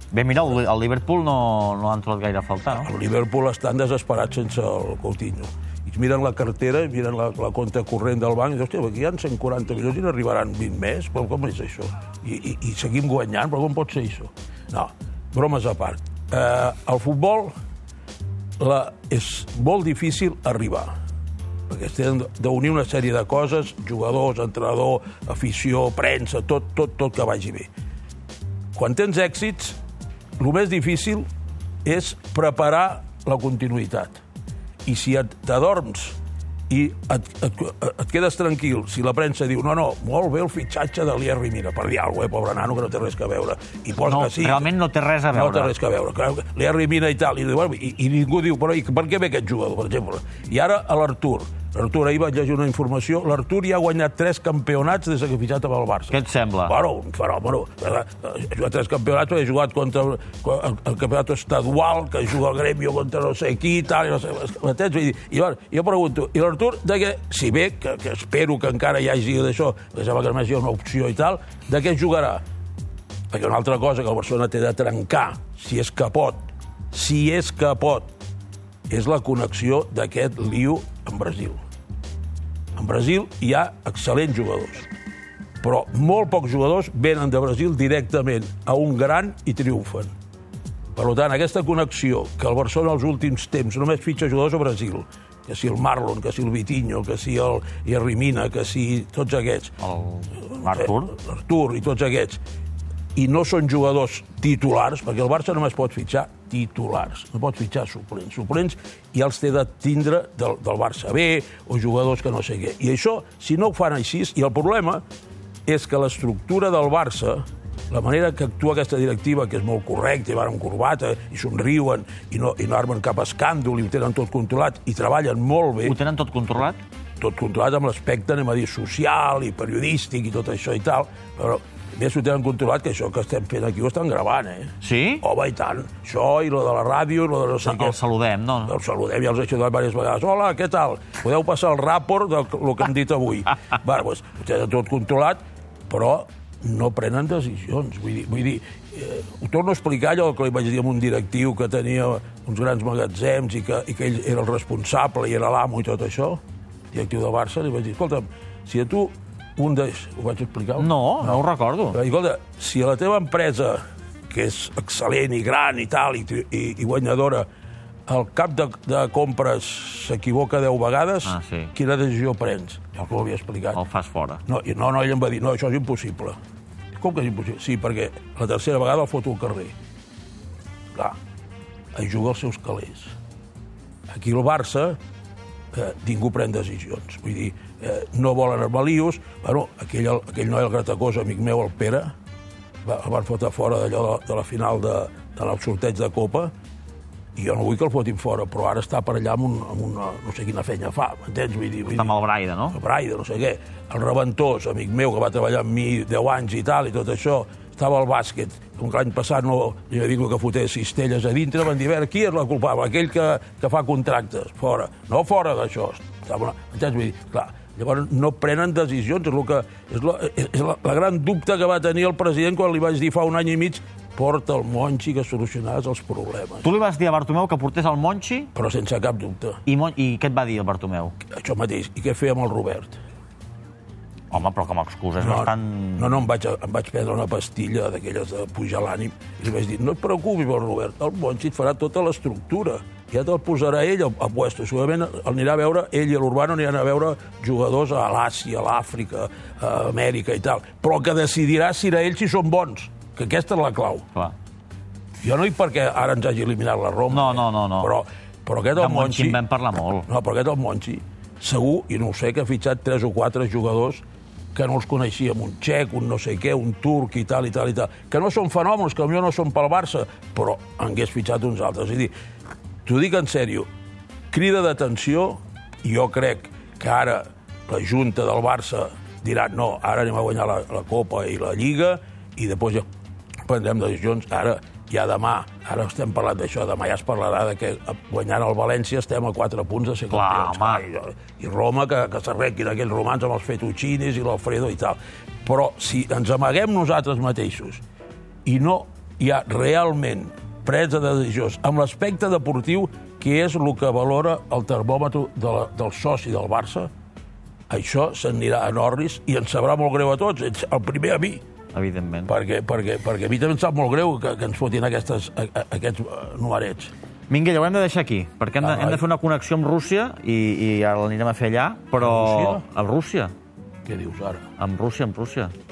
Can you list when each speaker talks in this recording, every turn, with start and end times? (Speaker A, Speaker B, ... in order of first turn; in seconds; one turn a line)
Speaker A: 0.1-2.9
Speaker B: 2.7-17.5
Speaker B: 18.6-20.9
Speaker B: 21.7-27.7
Speaker B: 28.8-29.8
Speaker B: 30.4-31.3
Speaker B: 31.9-34.2
Speaker B: 34.9-36.2
Speaker B: 36.7-44.7
Speaker A: 44.0-45.7
Speaker B: 45.3-72.4
Speaker A: 56.1-56.8
Speaker B: 73.3-78.1
Speaker B: 78.9-81.6
Speaker B: 82.8-84.9
Speaker B: 85.6-90.1
Speaker B: 91.0-99.8
Speaker A: 99.8-101.1
Speaker B: 100.5-102.4
Speaker B: 103.2-115.0
Speaker B: 115.7-126.0
Speaker A: 125.8-126.8
Speaker B: 127.2-138.0
Speaker A: 134.8-135.2
Speaker A: 137.6-138.8
Speaker B: 138.7-156.4
Speaker B: 156.9-167.5
Speaker A: 160.8-162.0
Speaker B: 168.1-173.8
Speaker A: 171.2-171.7
Speaker A: 173.7-174.4
Speaker B: 174.5-176.4
Speaker B: 176.9-179.7
Speaker B: 181.9-183.1
Speaker B: 184.1-185.0
Speaker B: 185.7-192.1
Speaker B: 192.8-196.5
Speaker B: 197.4-202.2
Speaker A: 201.9-202.8
Speaker B: 202.7-226.7
Speaker A: 226.6-228.5
Speaker B: 228.6-229.6
Speaker A: 229.7-231.2
Speaker B: 231.3-233.0
Speaker A: 234.3-236.2
Speaker B: 235.2-254.1
Speaker B: 255.2-259.4
Speaker A: 257.1-257.9
Speaker A: 258.8-260.1
Speaker B: 260.1-264.0
Speaker B: 264.6-272.1
Speaker B: 272.9-273.7
Speaker B: 274.3-282.9
Speaker B: 283.4-297.8
Speaker A: 290.1-290.9
Speaker B: 298.5-306.9
Speaker B: 307.7-311.4
Speaker A: 311.7-312.3
Speaker B: 312.3-316.9
Speaker A: 317.3-323.3
Speaker B: 318.6-319.1
Speaker B: 322.0-322.6
Speaker B: 323.9-324.4
Speaker A: 324.6-325.5